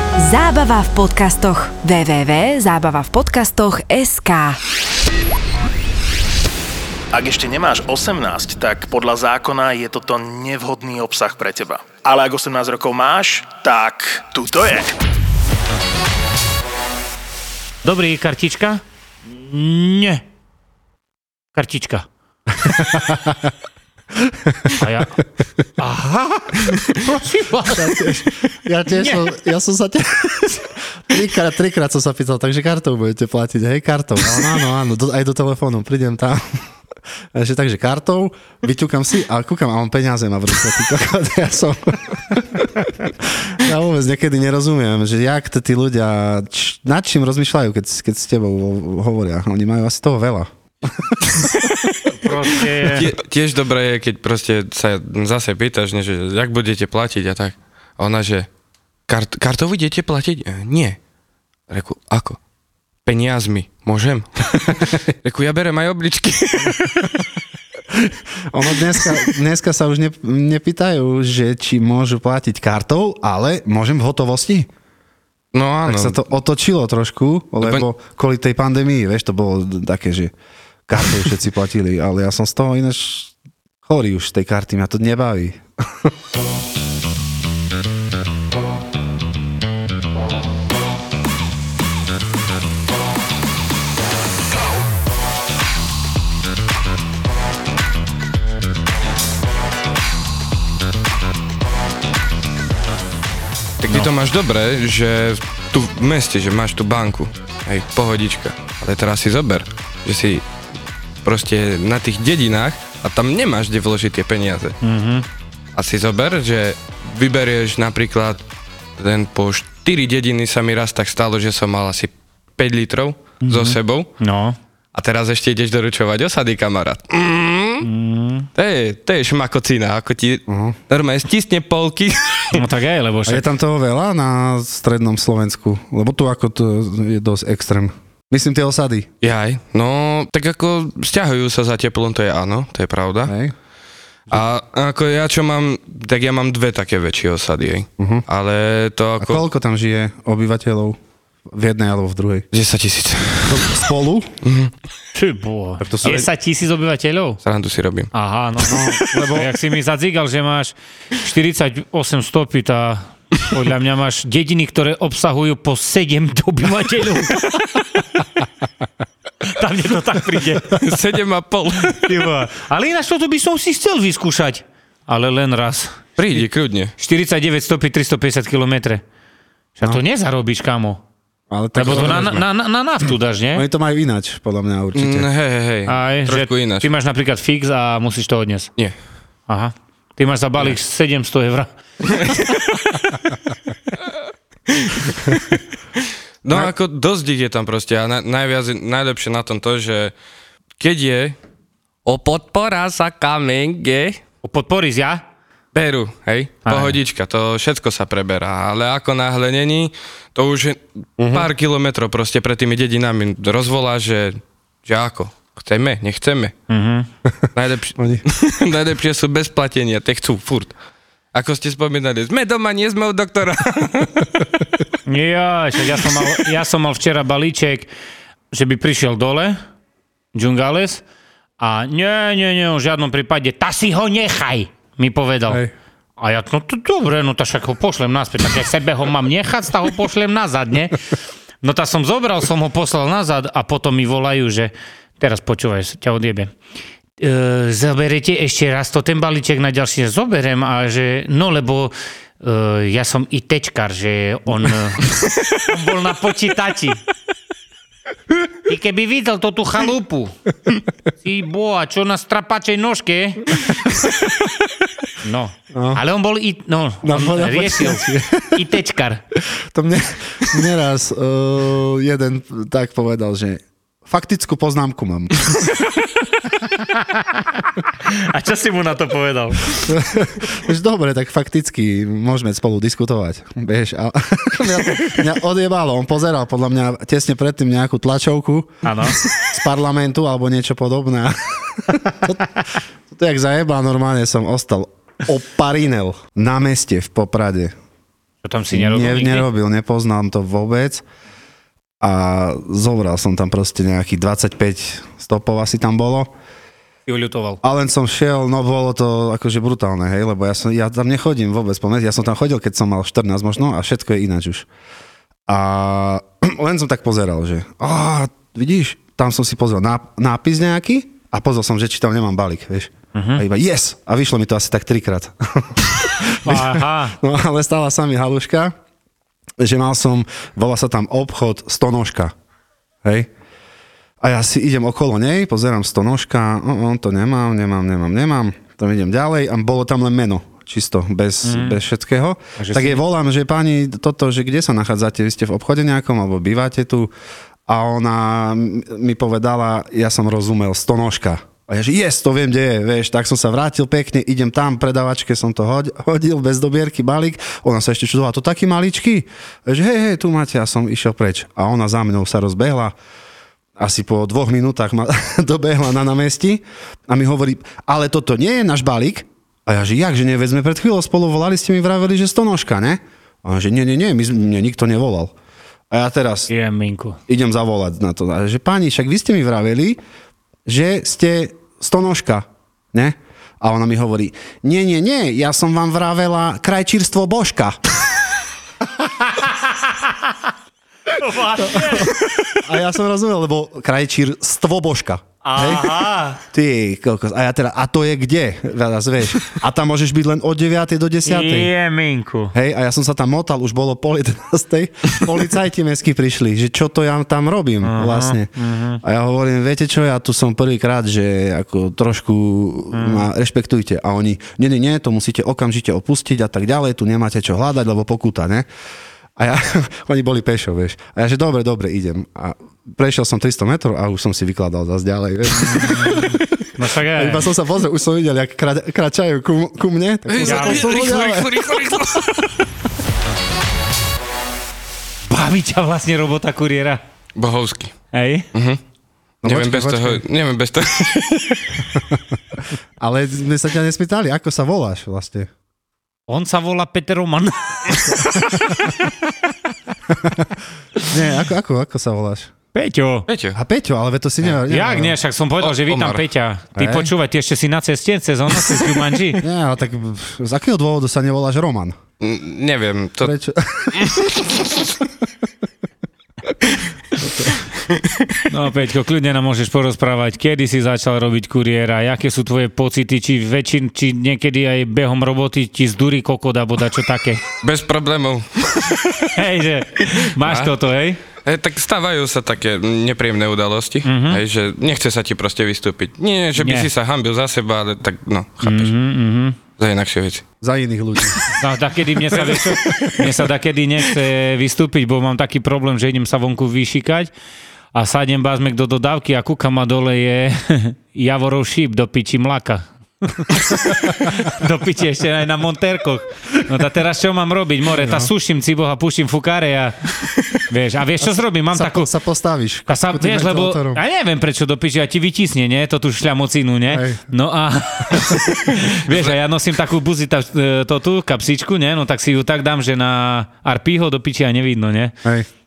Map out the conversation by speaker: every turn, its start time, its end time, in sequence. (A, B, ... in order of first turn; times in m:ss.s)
0:00.2-0:04.6 A
0:07.1-0:15.0 B
0:17.8-0:20.2 C
0:21.5-0:22.0 C
0:22.6-0:23.5 D
0:24.2-0:24.8 D
0:24.7-0:25.2 C
0:25.8-0:28.1 C
0:27.6-0:36.4 D
0:28.9-0:29.2 C
0:37.3-0:51.1 D
0:51.2-0:52.0 E
0:52.1-0:53.1 C
0:52.8-0:58.5 E
0:59.1-1:01.0 E
1:01.7-1:02.4 E
1:03.0-1:07.2 E
1:07.9-1:14.7 D
1:15.5-1:16.2 E
1:15.8-1:20.3 D
1:20.9-1:26.1 D
1:43.8-1:50.5 E
1:51.2-1:54.8 E
1:54.8-1:55.2 C
1:55.7-1:58.4 E
1:59.0-2:04.1 E
2:03.4-2:04.6 C
2:04.9-2:07.9 E
2:07.8-2:08.5 C
2:08.5-2:12.6 E
2:10.5-2:10.8 D
2:12.5-2:13.4 C
2:13.2-2:19.1 D
2:19.2-2:23.3 E
2:23.2-2:23.5 D
2:24.3-2:29.4 E
2:28.0-2:28.2 D
2:29.2-2:31.0 D
2:31.5-2:32.4 D
2:32.5-2:33.8 E
2:33.4-2:34.3 D
2:34.4-2:34.7 E
2:35.1-2:37.4 C
2:35.8-2:36.2 D
2:37.4-2:38.1 E
2:38.1-2:48.3 C
2:38.6-2:39.5 D
2:49.4-2:50.8 C
2:50.7-2:52.3 E
2:52.0-2:56.0 C
2:56.2-2:56.9 E
2:57.0-2:59.0 C
2:59.8-3:01.0 C
3:01.5-3:02.4 D
3:01.8-3:03.6 C
3:01.8-3:02.4 E
3:03.5-3:05.3 D
3:04.9-3:06.9 E
3:05.9-3:08.7 C
3:09.5-3:11.7 C
3:12.1-3:12.9 E
3:14.7-3:15.4 E
3:16.4-3:20.1 E
3:20.8-3:21.4 E
3:22.0-3:24.2 E
3:24.4-3:25.2 C
3:25.7-3:36.5 E
3:26.6-3:27.0 C
3:31.2-3:31.5 D
3:36.7-3:37.1 C
3:37.5-3:40.7 E
3:38.0-3:38.2 D
3:41.3-3:44.5 E
3:45.0-3:47.9 C
3:48.5-3:49.6 C
3:50.3-3:51.0 C
3:51.6-3:55.6 C
3:56.2-4:01.0 C
4:01.6-4:06.5 C
4:07.2-4:17.0 C
4:18.6-4:20.4 C
4:21.2-4:23.6 C
4:25.2-4:29.2 C
4:25.7-4:26.0 D
4:27.0-4:28.6 D
4:29.5-4:35.3 D
4:36.6-4:39.9 C
4:39.8-4:57.7 D
4:48.8-4:49.2 C
4:58.4-4:59.5 C
4:58.7-5:01.0 D
5:02.0-5:06.3 D
5:07.1-5:07.6 C
5:07.6-5:14.7 D
5:15.5-5:28.7 D
5:23.1-5:23.4 C
5:26.4-5:27.2 C
5:29.6-5:32.3 D
5:33.0-5:33.3 D
5:34.2-5:47.1 D
5:41.4-5:41.8 C
5:42.6-5:43.0 C
5:47.7-6:02.9 D
6:03.8-6:15.3 D
6:15.9-6:16.5 D
6:16.5-6:17.2 C
6:17.3-6:20.0 D
6:20.6-6:27.8 D
6:29.3-6:30.3 C
6:31.1-6:32.2 C
6:31.6-6:41.7 D
6:35.4-6:36.4 C
6:41.2-6:42.5 C
6:42.5-6:48.5 D
6:47.8-6:49.0 C
6:49.0-6:58.7 D
6:52.9-6:53.2 C
6:59.4-7:12.3 D
7:05.6-7:07.5 C
7:10.3-7:12.5 E
7:10.4-7:10.8 C
7:15.3-7:17.0 C
7:17.4-7:17.9 E
7:18.1-7:18.5 C
7:18.5-7:18.8 E
7:19.4-7:20.2 D
7:19.4-7:21.9 E
7:23.0-7:25.5 D
7:26.3-7:28.1 C
7:28.3-7:28.7 D
7:30.1-7:30.6 D
7:31.1-7:32.5 D
7:32.7-7:33.2 C
7:33.3-7:33.6 E
7:33.5-7:35.2 D
7:34.7-7:39.4 C
7:35.6-7:36.2 E
7:36.8-7:37.1 D
7:39.4-7:42.0 D
7:42.2-7:43.3 E
7:43.2-7:44.1 D
7:43.9-7:44.8 E
7:47.2-7:47.5 D
7:47.9-7:48.4 E
7:48.5-7:57.5 C
7:57.6-7:59.4 E
7:59.3-8:01.2 C
8:00.0-8:00.8 E
8:01.4-8:08.9 E
8:04.0-8:04.4 C
8:06.6-8:06.9 C
8:08.6-8:09.6 C
8:09.8-8:10.4 E
8:10.6-8:11.5 D
8:11.6-8:17.3 C
8:12.4-8:13.3 E
8:17.9-8:30.0 C
8:27.9-8:28.3 D
8:30.7-8:32.1 C
8:31.7-8:34.0 D
8:32.9-8:45.1 C
8:36.9-8:37.2 D
8:38.1-8:38.4 D